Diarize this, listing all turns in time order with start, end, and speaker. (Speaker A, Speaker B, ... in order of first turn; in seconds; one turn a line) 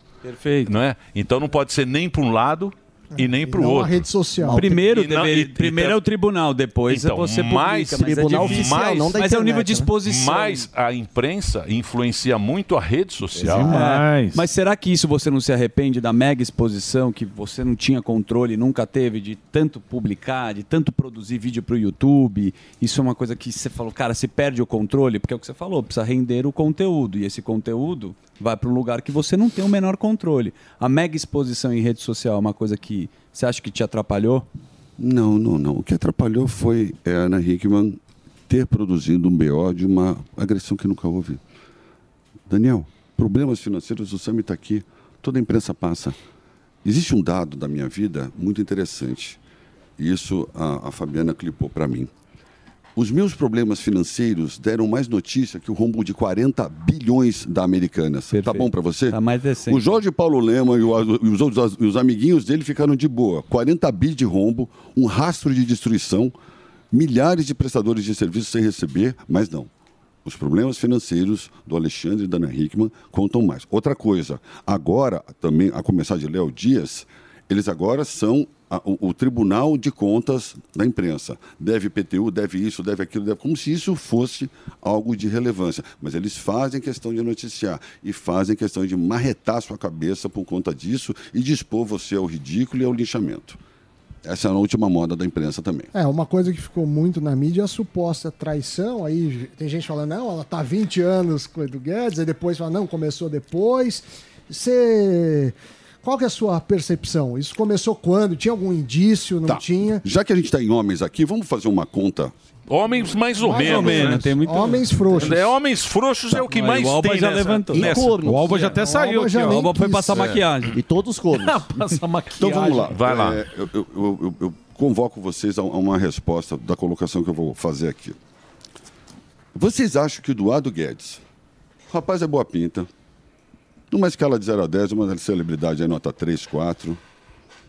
Speaker A: 0.2-0.7
Speaker B: 0.6-4.0
Speaker C: 3.2-4.7
Speaker A: 4.5-10.7
Speaker B: 4.6-6.0
Speaker B: 6.9-9.1
Speaker D: 8.0-9.9
Speaker B: 10.0-13.8
Speaker D: 13.3-13.6
Speaker E: 13.5-14.4
Speaker A: 13.5-34.5
Speaker F: 35.0-41.4
Speaker F: 42.5-46.2
Speaker F: 46.8-49.4
Speaker F: 50.0-52.1
Speaker F: 53.0-66.3
Speaker A: 58.3-59.9
Speaker F: 66.9-69.7
Speaker F: 70.2-93.6
Speaker F: 94.2-95.9
Speaker C: 95.9-110.0
Speaker F: 109.5-112.3
Speaker B: 112.7-114.3
Speaker C: 113.4-115.4
Speaker A: 113.5-115.5
Speaker B: 115.1-118.2
Speaker A: 116.3-118.6
Speaker D: 117.7-118.8
Speaker E: 118.2-119.6
Speaker C: 118.8-120.2
Speaker A: 119.4-120.7
Speaker B: 120.1-120.4
Speaker D: 120.7-121.7
Speaker E: 121.3-122.9
Speaker F: 122.3-128.2
Speaker B: 122.9-123.4
Speaker F: 129.5-131.2
Speaker F: 131.9-132.9
Speaker F: 133.9-137.0